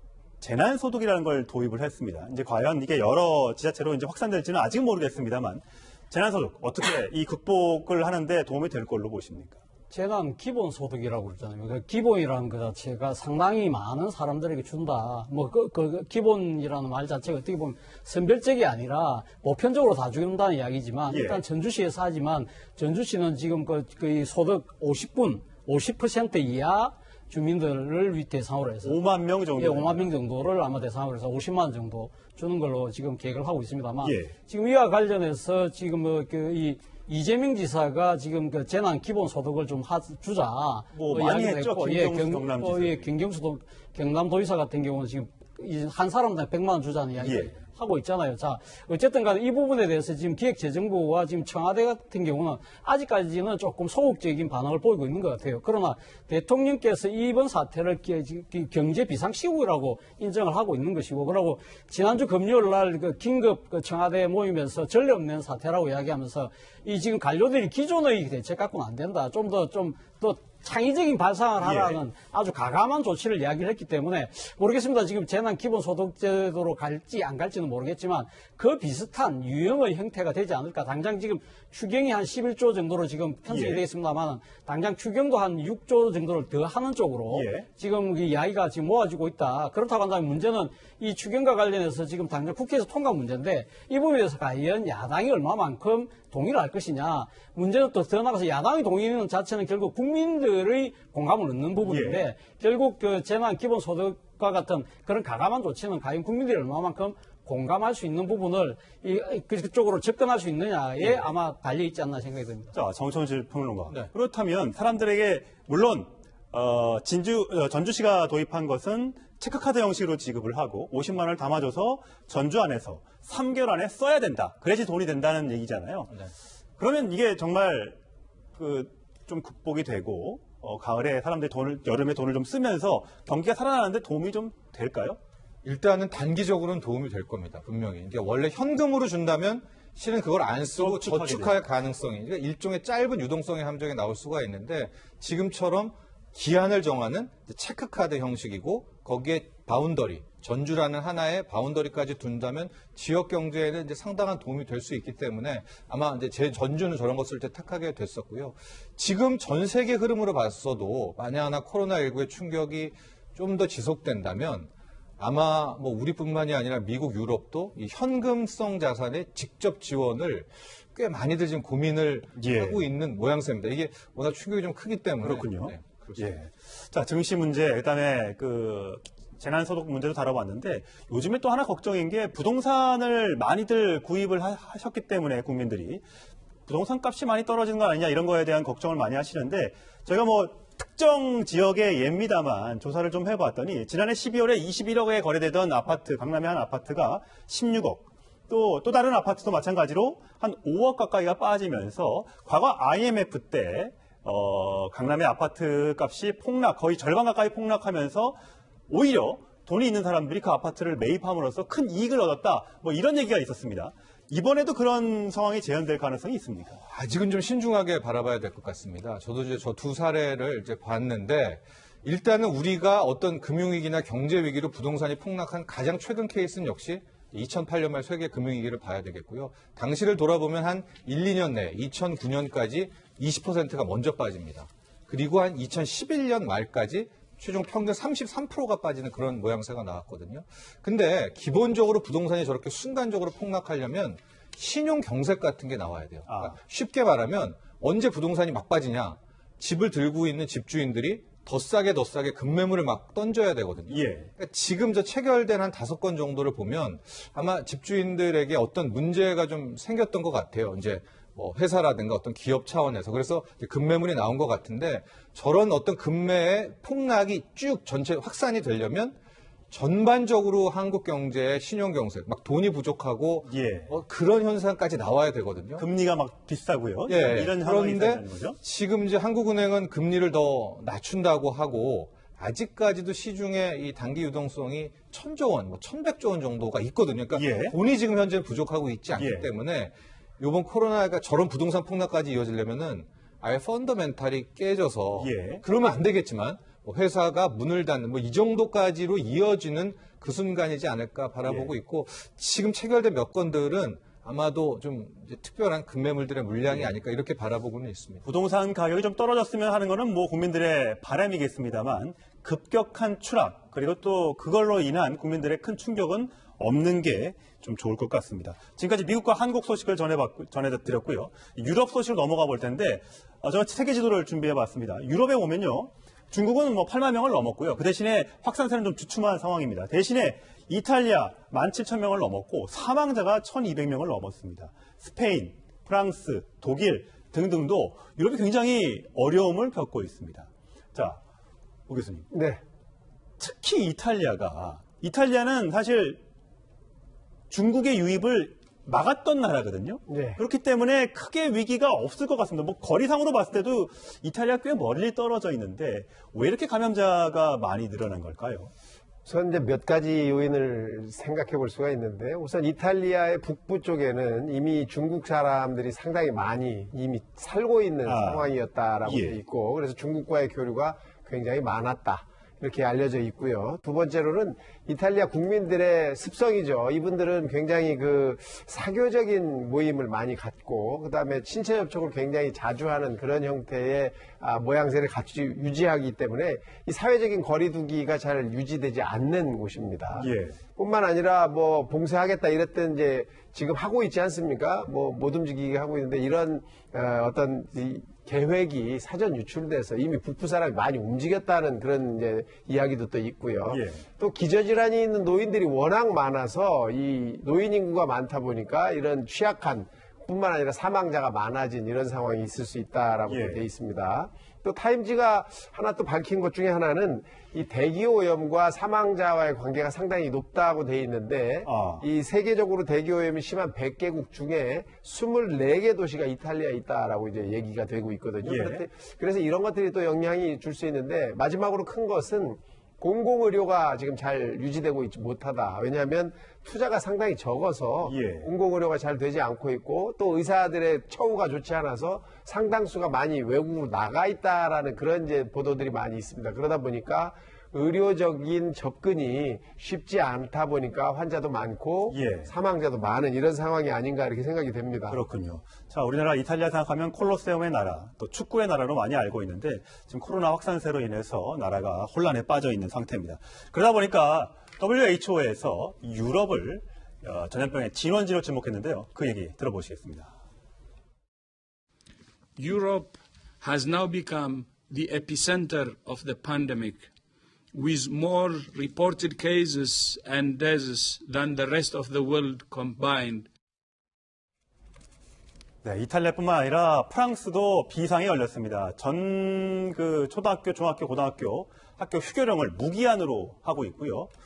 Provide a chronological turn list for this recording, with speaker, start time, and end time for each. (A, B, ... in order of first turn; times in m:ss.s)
0:00.4-0:09.6 A
0:09.9-0:29.0 B
0:21.1-0:21.4 A
0:28.8-0:30.1 A
0:29.5-1:52.8 B
0:34.0-0:34.3 A
0:40.9-0:43.1 A
0:47.2-0:47.6 A
1:11.6-1:12.0 A
1:23.5-1:23.8 A
1:27.3-1:27.7 A
1:41.8-1:42.2 A
1:51.0-1:51.3 A
1:52.7-2:08.0 A
2:08.6-2:15.2 A
2:15.6-2:56.3 C
2:20.7-2:21.6 A
2:52.4-2:52.8 A
2:55.2-3:06.0 A
3:06.6-3:28.4 A
3:28.9-3:36.8 A
3:36.8-4:29.2 C
4:06.3-4:06.6 A
4:13.9-4:14.3 A
4:29.7-4:35.8 C
4:33.5-4:34.0 A
4:35.8-4:38.6 A
4:37.1-5:08.2 C
4:47.3-4:47.8 A
4:49.1-4:49.5 A
4:55.2-4:55.6 A
5:01.4-5:01.8 A
5:08.2-5:41.2 A
5:41.9-5:42.3 A
5:42.3-5:42.6 D
5:43.4-5:46.2 A
5:47.5-5:58.7 A
5:50.1-5:50.4 D
5:59.2-7:35.2 D
6:08.0-6:09.4 A
6:30.1-6:30.6 A
6:43.7-6:44.0 A
6:53.3-6:53.6 A
7:01.6-7:02.0 A
7:08.4-7:08.8 A
7:18.0-7:18.5 A
7:32.1-7:32.5 A
7:35.1-7:50.3 A
7:52.6-7:57.1 E
7:57.7-8:03.5 E
8:05.8-8:14.3 A